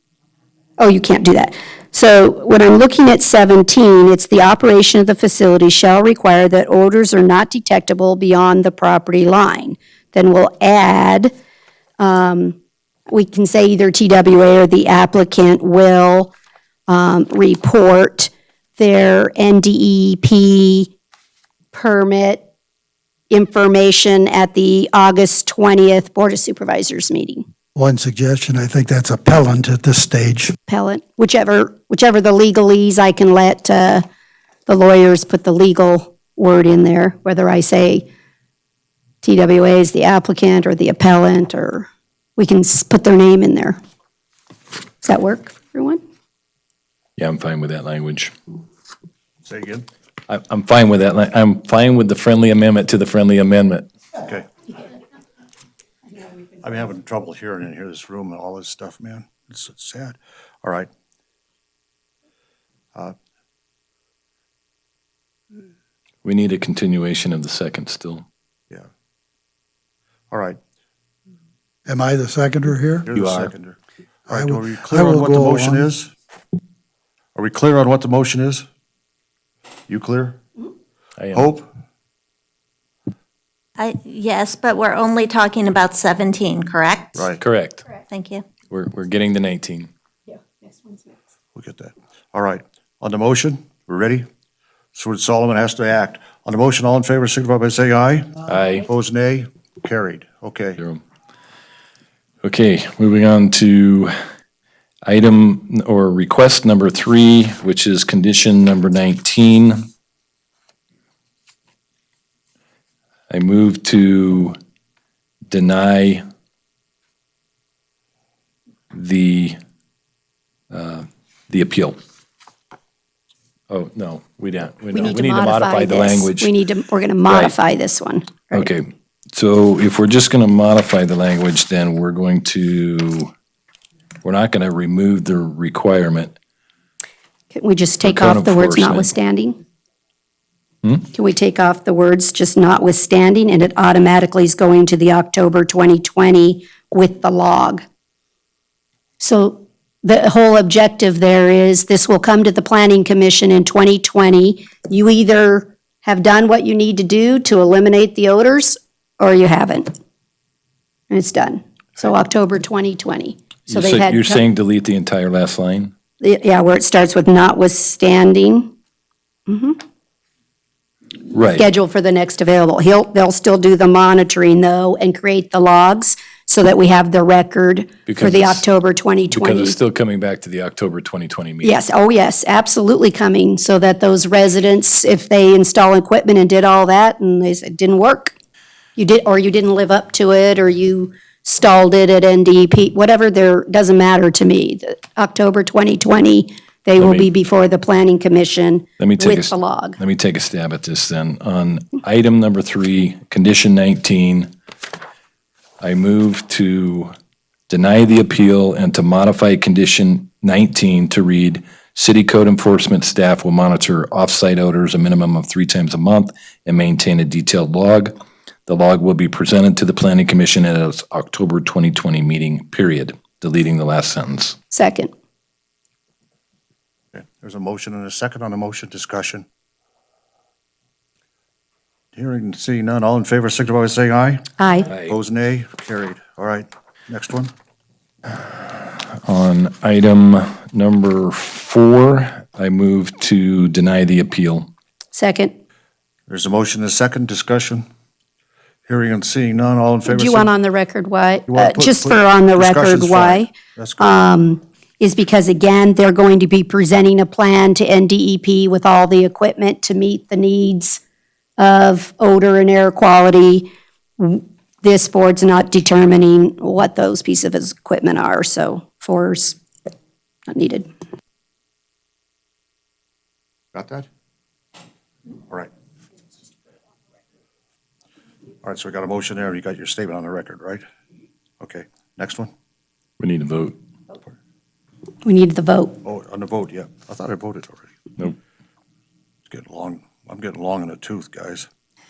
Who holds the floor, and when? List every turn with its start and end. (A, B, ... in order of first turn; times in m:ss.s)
0:00.8-0:11.3 A
0:12.0-0:12.6 A
0:13.1-0:16.3 A
0:16.9-0:20.9 A
0:21.7-0:22.5 A
0:23.3-0:27.4 A
0:27.8-0:30.5 B
0:30.7-0:34.0 A
0:34.7-0:38.1 A
0:39.2-0:43.8 A
0:45.0-0:46.0 A
0:47.2-0:48.3 C
0:49.4-0:49.9 D
0:50.3-0:53.9 C
0:56.5-1:00.9 D
1:06.2-1:08.2 C
1:10.3-1:10.6 D
1:11.9-1:13.1 B
1:13.1-1:13.8 D
1:13.1-1:13.5 C
1:14.3-1:15.9 B
1:14.3-1:16.1 D
1:17.3-1:18.7 D
1:19.9-1:20.4 D
1:21.2-1:21.5 C
1:21.3-1:21.7 D
1:23.8-1:27.2 E
1:27.2-1:27.4 D
1:27.4-1:27.9 C
1:28.0-1:28.5 E
1:28.7-1:29.9 C
1:31.6-1:34.3 D
1:34.9-1:40.8 D
1:38.5-1:38.9 C
1:42.4-1:44.1 C
1:45.0-1:49.9 C
1:53.3-1:54.6 C
1:55.5-1:56.2 C
1:58.9-1:59.6 C
2:00.7-2:02.0 C
2:03.7-2:06.5 C
2:04.9-2:08.7 A
2:07.3-2:07.5 C
2:08.5-2:13.3 C
2:14.2-2:16.3 C
2:17.5-2:19.6 A
2:18.0-2:19.1 C
2:21.1-2:27.8 A
2:29.2-2:39.9 A
2:41.1-2:44.4 A
2:43.7-2:45.9 C
2:46.2-2:48.7 A
2:49.5-2:49.8 A
2:51.3-2:51.7 C
2:51.6-2:59.8 A
2:58.0-2:58.6 C
2:59.3-3:01.8 C
3:01.6-3:08.3 A
3:09.0-3:20.0 A
3:17.0-3:17.3 C
3:19.0-3:24.5 C
3:25.8-3:27.1 C
3:27.7-3:38.1 C
3:38.7-3:44.6 C
3:44.7-3:45.1 A
3:47.1-3:49.4 D
3:52.1-3:57.5 D
3:54.6-3:54.9 A
3:54.8-3:55.2 C
3:58.3-4:04.7 C
4:05.1-4:05.5 A
4:06.3-4:07.8 D
4:08.9-4:10.5 D
4:10.0-4:21.0 A
4:11.5-4:14.2 D
4:21.6-4:29.6 A
4:30.5-4:30.9 A
4:33.7-4:34.1 D
4:38.6-4:40.8 D
4:41.6-4:42.5 D
4:43.2-4:43.8 C
4:45.2-4:46.0 A
4:46.0-4:47.9 D
4:49.5-4:51.7 D